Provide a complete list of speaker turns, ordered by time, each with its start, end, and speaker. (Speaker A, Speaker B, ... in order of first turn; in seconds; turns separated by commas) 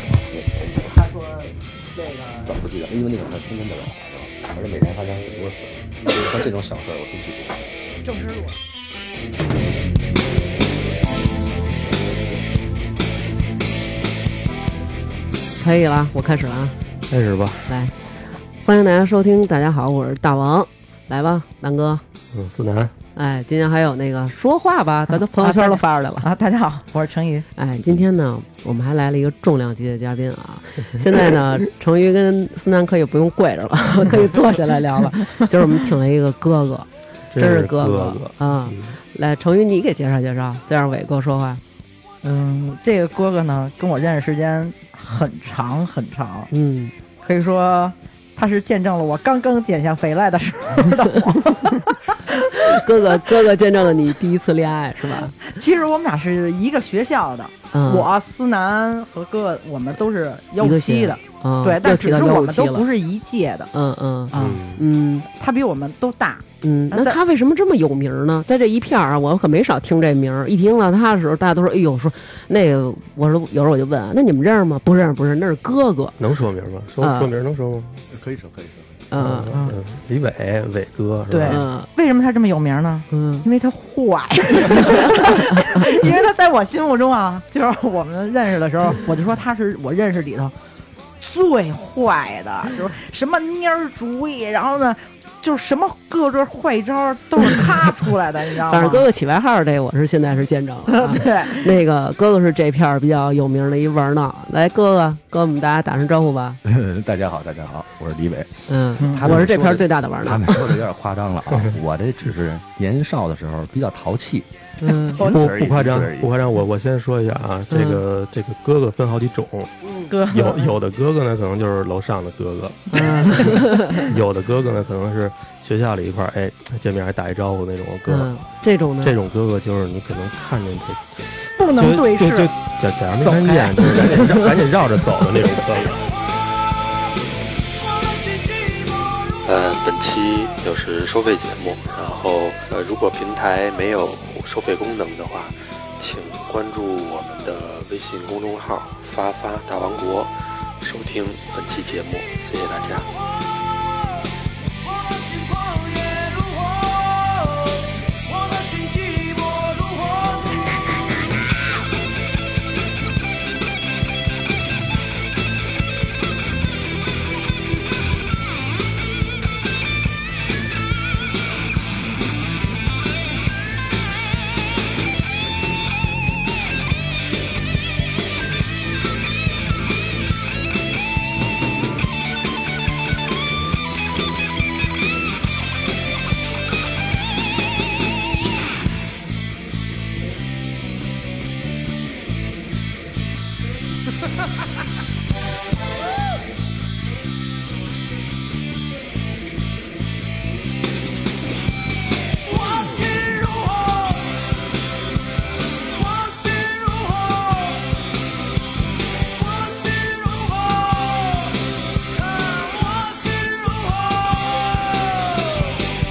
Speaker A: 0.5-2.5, Speaker B: 2.5-7.6, Speaker A: 8.0-8.6, Speaker C: 15.6-16.8, Speaker D: 17.1-17.7, Speaker C: 17.7-17.9, Speaker C: 18.6-22.0, Speaker D: 22.3-22.9, Speaker C: 23.1-26.3, Speaker A: 25.2-27.5, Speaker C: 27.6-41.6, Speaker D: 37.3-39.0, Speaker A: 42.2-46.5, Speaker C: 46.5-46.9, Speaker A: 47.2-52.8, Speaker C: 52.7-55.4, Speaker A: 55.4-63.7, Speaker C: 57.7-58.1, Speaker C: 60.6-62.9, Speaker C: 63.7-65.3, Speaker A: 64.3-64.7, Speaker D: 64.3-64.8, Speaker A: 65.3-67.2, Speaker C: 66.6-76.2, Speaker D: 76.2-78.0, Speaker C: 77.0-77.3, Speaker B: 78.1-79.0, Speaker C: 79.1-79.5, Speaker D: 79.2-81.7, Speaker A: 79.5-79.8, Speaker A: 81.3-90.5, Speaker C: 81.4-81.9, Speaker C: 83.1-83.5, Speaker A: 91.2-99.1, Speaker C: 98.7-106.6, Speaker A: 100.9-101.7, Speaker B: 106.7-114.5, Speaker C: 108.7-110.8, Speaker A: 109.0-109.4, Speaker C: 114.8-115.2, Speaker B: 115.0-116.3, Speaker A: 115.2-115.5, Speaker D: 115.3-119.7, Speaker C: 117.7-118.0, Speaker C: 119.8-120.1, Speaker A: 120.1-120.8, Speaker D: 120.3-128.3, Speaker C: 122.9-124.1, Speaker C: 128.1-129.2, Speaker D: 129.0-136.1, Speaker A: 131.6-132.5, Speaker A: 133.2-134.4, Speaker E: 139.4-153.1, Speaker C: 209.8-210.4, Speaker C: 212.3-215.6